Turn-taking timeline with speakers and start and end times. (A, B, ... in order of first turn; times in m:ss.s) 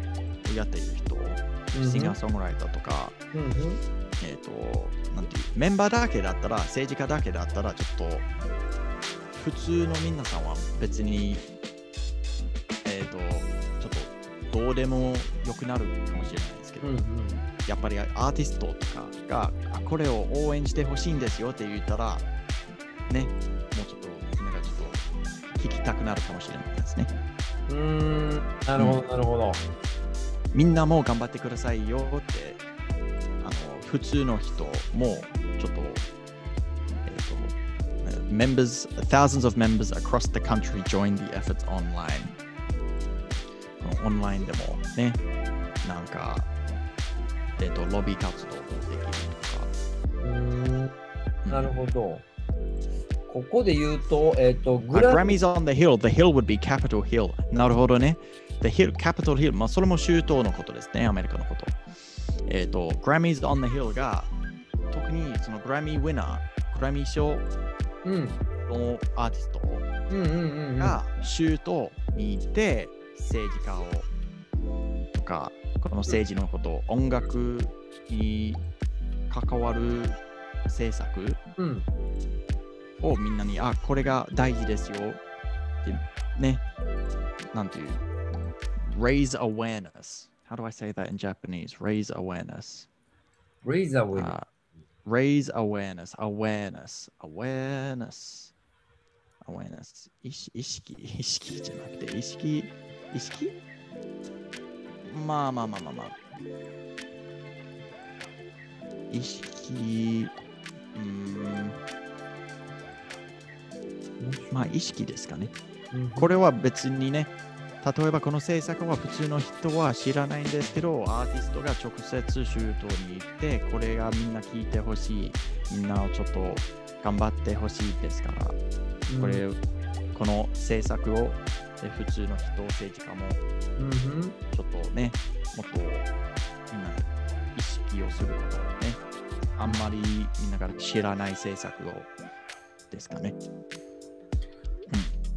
0:00.4-0:03.2 A
0:01.7-0:02.2 B
0:03.3-0:03.8 B
0:04.2-0:08.2 A
0:09.3-0:11.4 A
0:12.8-0:16.8 A
0:16.8-0:17.4 B
0:17.6-0:22.2 A
0:23.1-0:25.0 A
0:25.5-0:27.1 A
0:27.7-0:29.6 B
0:28.8-0:29.0 A
0:30.5-0:32.6 A
0:33.4-0:36.0 A
0:37.0-0:42.4 A
0:43.8-0:45.2 A
0:45.8-0:46.5 A
0:47.6-0:49.7 A
0:50.2-0:50.9 B
0:51.4-0:51.8 A
0:51.5-0:52.2 B
0:53.3-0:55.3 B
0:54.9-1:01.8 A
1:02.5-1:04.3 A
1:04.9-1:07.4 A
1:08.0-1:08.4 B
1:08.7-1:09.8 A
1:10.1-1:11.0 B
1:10.8-1:14.1 A
1:15.1-1:18.6 A
1:19.3-1:21.4 A
1:21.6-1:21.8 B
1:23.0-1:25.2 A
1:25.8-1:26.6 A
1:27.5-1:28.0 A
1:28.8-1:32.9 A
1:33.6-1:34.3 B
1:34.1-1:34.4 A
1:35.0-1:38.5 A
1:39.4-1:43.6 A
1:45.0-1:46.1 A
1:49.1-1:50.3 A
1:50.9-1:51.8 A
1:54.5-1:55.5 A
1:55.9-1:56.3 B
1:56.2-2:08.6 A
2:09.1-2:09.4 B
2:09.2-2:09.6 A
2:10.1-2:13.4 A
2:13.8-2:14.4 B
2:14.5-2:16.1 A
2:16.7-2:19.0 A
2:19.6-2:22.1 A
2:22.9-2:23.4 A